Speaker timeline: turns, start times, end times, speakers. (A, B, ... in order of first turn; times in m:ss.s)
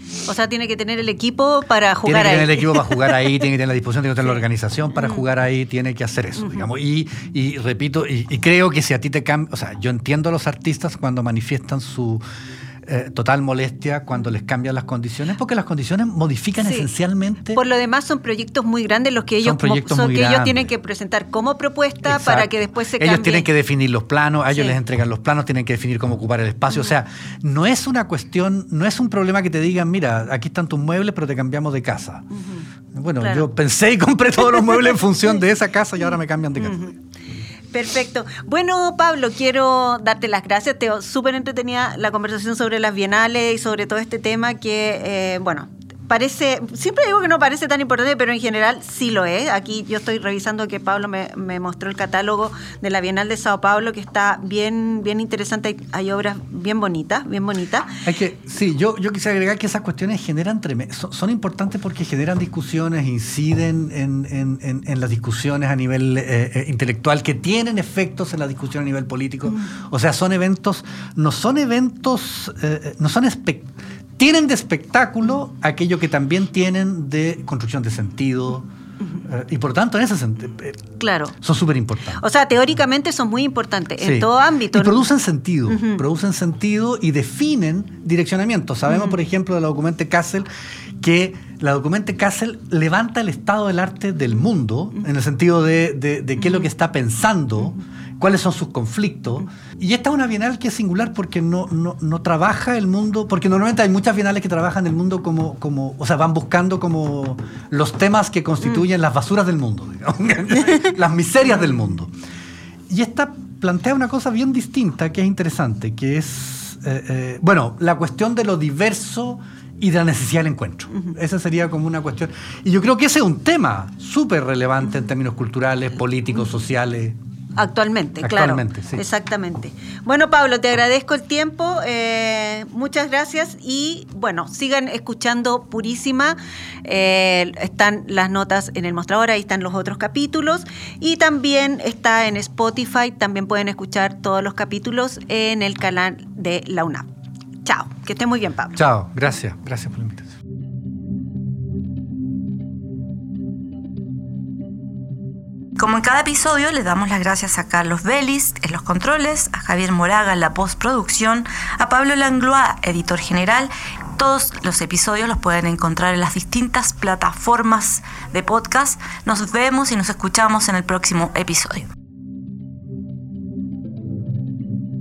0:00.2-0:02.8 A
0:02.0-0:12.2 B
0:12.9-0:17.6 B
0:17.6-0:23.5 A
0:19.4-0:20.7 B
0:22.0-0:32.3 B
0:32.9-0:36.9 B
0:37.7-0:58.0 A
0:58.0-1:18.7 B
1:19.2-1:20.8 B
1:21.0-1:21.3 A
1:21.4-1:22.2 B
1:22.2-1:25.0 A
1:24.0-1:30.5 B
1:25.7-1:26.0 A
1:31.0-1:52.1 B
1:52.9-2:07.2 B
2:07.6-2:27.1 A
2:08.2-2:09.0 B
2:27.6-2:28.8 A
2:28.8-2:30.3 B
2:35.8-2:51.9 C